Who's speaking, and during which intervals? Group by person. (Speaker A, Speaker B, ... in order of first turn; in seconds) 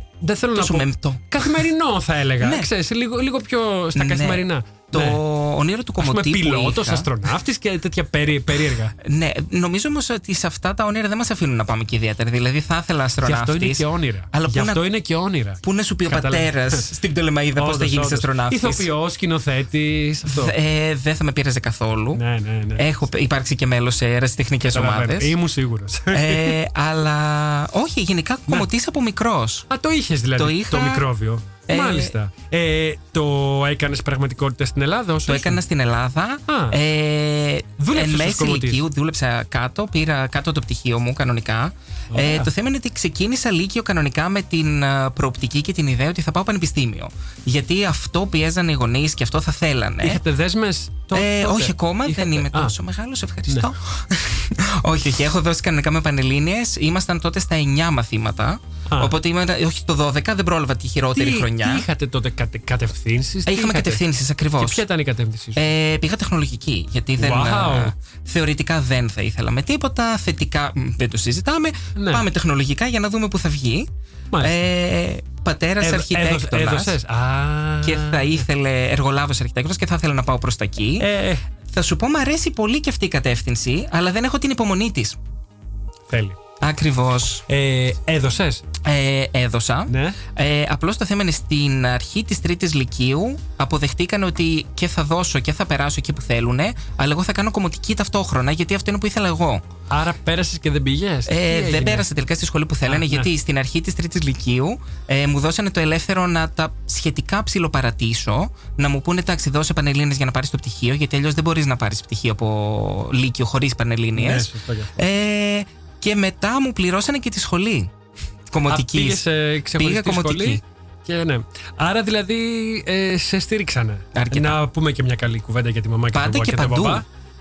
Speaker A: 0.2-5.2, 6.0-8.9, 13.2-16.8, 17.6-20.5, 22.1-22.9, 24.7-26.6, 29.7-35.6, 36.5-36.8, 37.8-38.8, 42.1-42.5, 50.0-52.7, 58.9-59.1, 61.1-64.0, 64.6-65.6, 67.2-67.9, 72.0-72.2, 75.8-78.4, 81.0-81.4, 86.1-86.4, 87.5-88.6, 89.9-90.2, 99.9-102.0, 102.9-103.3, 114.1-115.0, 118.7-127.0
Speaker B: 0.5-1.6, 2.4-2.7, 3.9-7.1, 9.0-14.8, 15.6-18.9, 20.3-22.2, 22.8-25.3, 26.1-29.7, 30.4-31.1, 31.7-32.1, 35.2-50.2, 51.1-61.9, 63.4-64.8, 65.5-73.9, 74.4-77.0, 77.8-81.1, 81.7-85.2, 86.6-87.4, 88.8-99.6, 101.3-117.9, 118.5-119.2, 119.8-120.6, 124.1-124.6, 126.1-127.0